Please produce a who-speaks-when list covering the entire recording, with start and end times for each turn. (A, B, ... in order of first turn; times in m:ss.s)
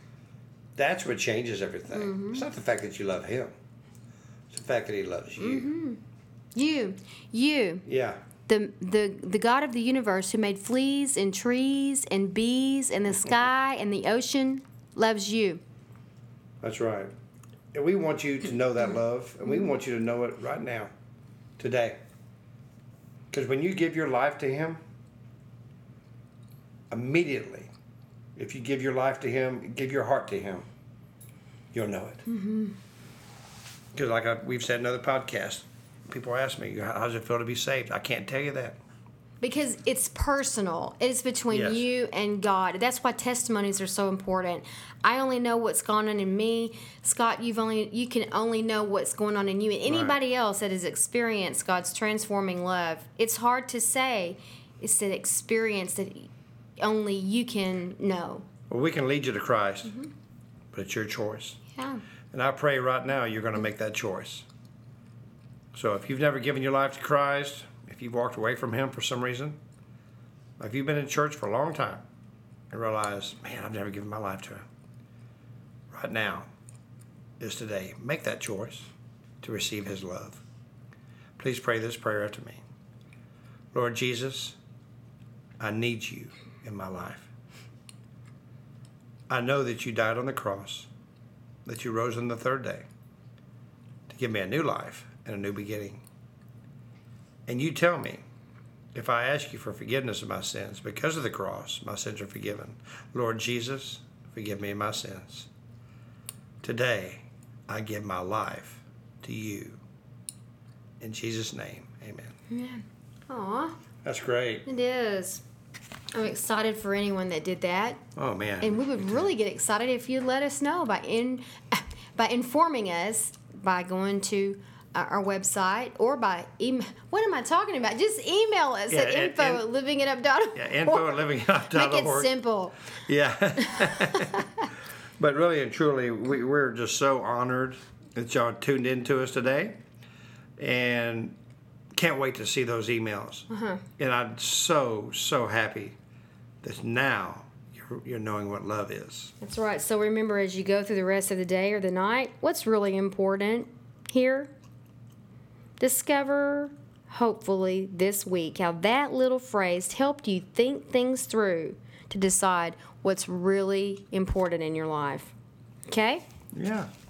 0:00.8-0:03.5 A
0:01.9-0:02.5 B
0:04.5-0:05.7 A
0:05.4-0:06.0 B
0:06.5-0:07.9 B
0:07.8-0:08.2 A
0:08.4-0:15.6 B
0:16.6-0:17.1 A
0:17.7-0:20.9 A
0:21.6-0:22.0 A
0:23.3-0:24.8 A
0:26.9-0:27.7 A
0:28.4-0:30.7 A
0:31.7-0:32.2 A
0:32.3-0:32.8 B
0:33.9-0:38.8 A
0:39.4-0:58.4 B
0:41.5-0:41.8 A
0:49.8-0:50.2 A
0:58.7-0:59.9 A
0:59.8-1:00.1 B
1:00.7-1:01.6 A
1:01.7-1:02.0 B
1:02.3-1:04.4 A
1:05.7-1:09.6 A
1:10.6-1:12.0 A
1:12.7-1:14.6 A
1:15.9-1:16.5 A
1:17.4-1:20.4 A
1:21.4-1:22.6 A
1:23.7-1:24.6 A
1:25.6-1:27.3 A
1:29.3-1:30.9 A
1:31.6-1:32.8 A
1:34.1-1:36.0 A
1:37.5-1:38.2 A
1:38.9-1:45.5 A
1:46.6-1:49.8 A
1:51.0-1:52.3 A
1:52.5-1:53.8 B
1:54.0-1:54.6 A
1:54.6-1:55.4 B
1:56.1-1:58.0 B
1:58.2-1:59.3 A
1:58.6-2:12.8 B
2:08.9-2:09.6 A
2:10.5-2:12.3 A
2:13.0-2:14.4 A
2:13.7-2:14.6 B
2:15.2-2:19.8 A
2:20.6-2:21.4 A
2:21.9-2:23.5 A
2:23.5-2:23.8 B
2:24.0-2:26.0 A
2:26.6-2:29.3 A
2:29.4-2:34.5 B
2:35.8-2:45.3 B
2:45.8-2:46.2 B
2:46.5-2:46.9 A